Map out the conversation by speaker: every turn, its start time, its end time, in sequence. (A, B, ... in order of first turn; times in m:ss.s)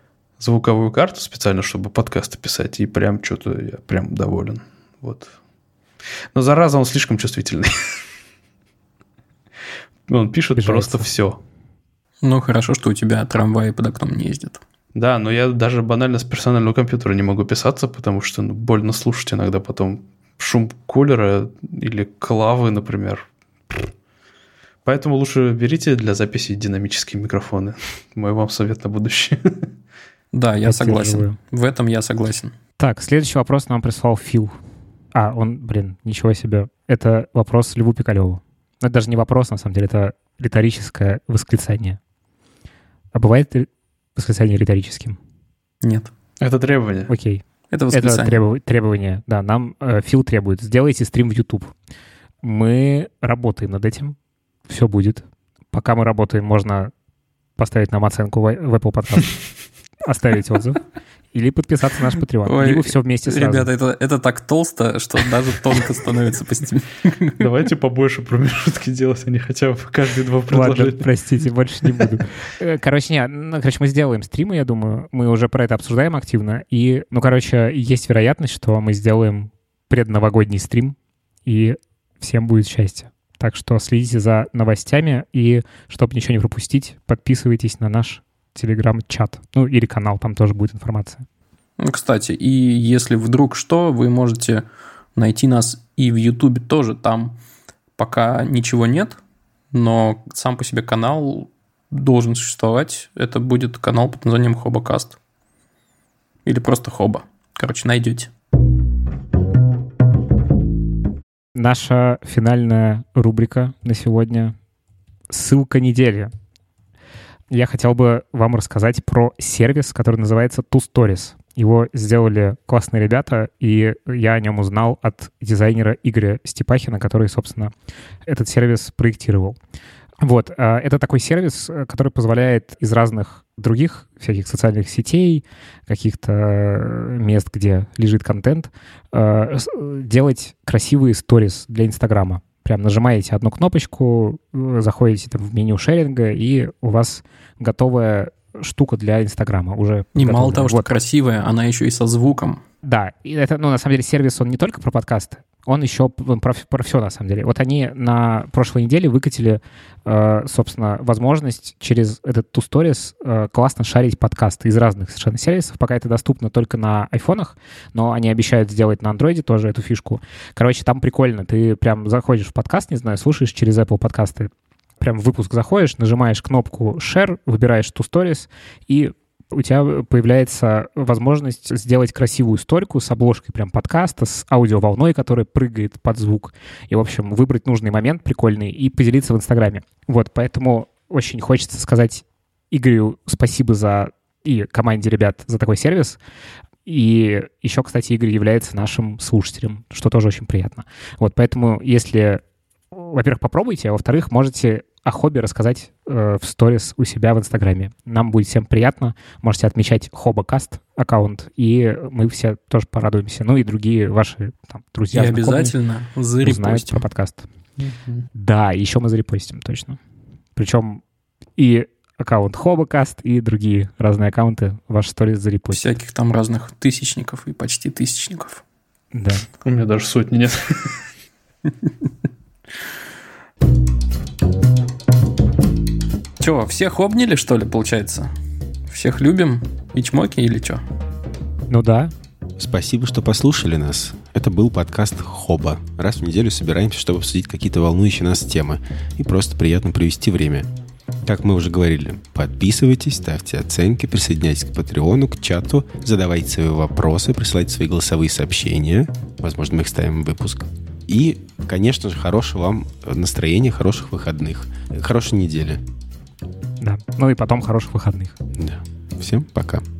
0:00.4-0:05.3 A
0:06.3-0:08.0 A
0:10.1-0:11.4 A
0:10.6-0:11.1 B
0:12.2-0:14.6 C
0:14.9-0:23.9 A
0:24.8-0:29.7 A
0:30.3-0:32.5 C
0:30.6-0:31.4 B
0:32.8-0:34.6 B
0:35.1-0:42.0 B
0:43.1-0:45.2 B
0:45.8-0:46.1 C
0:46.4-0:47.1 A
0:47.1-0:51.7 B
0:47.7-0:48.4 C
0:52.4-0:54.2 B
0:54.7-0:56.9 B
0:57.6-0:59.4 B
1:00.0-1:03.7 B
1:02.4-1:07.4 C
1:07.4-1:11.1 A
1:10.5-1:31.2 B
1:31.8-1:37.4 C
1:38.0-1:39.2 C
1:39.7-1:45.2 C
1:46.4-1:48.3 C
1:51.5-1:54.5 B
1:55.3-1:56.3 B
1:57.5-2:07.7 B
2:08.2-2:09.6 B
2:10.2-2:30.9 B
2:30.2-2:32.6 C
2:32.8-3:16.2 B
3:16.8-3:35.7 B
3:35.1-3:37.0 C
3:36.4-3:37.4 B
3:37.8-3:38.2 A
3:38.3-3:40.0 B
3:40.6-3:41.0 B
3:41.6-3:45.9 B
3:45.7-3:48.6 C
3:49.1-3:49.5 B
3:49.6-3:50.9 A
3:56.4-3:58.3 C
3:58.9-4:00.8 C
4:01.7-4:02.1 B
4:02.6-4:10.7 D
4:11.2-4:25.8 D
4:26.8-4:28.3 B
4:28.6-4:29.8 D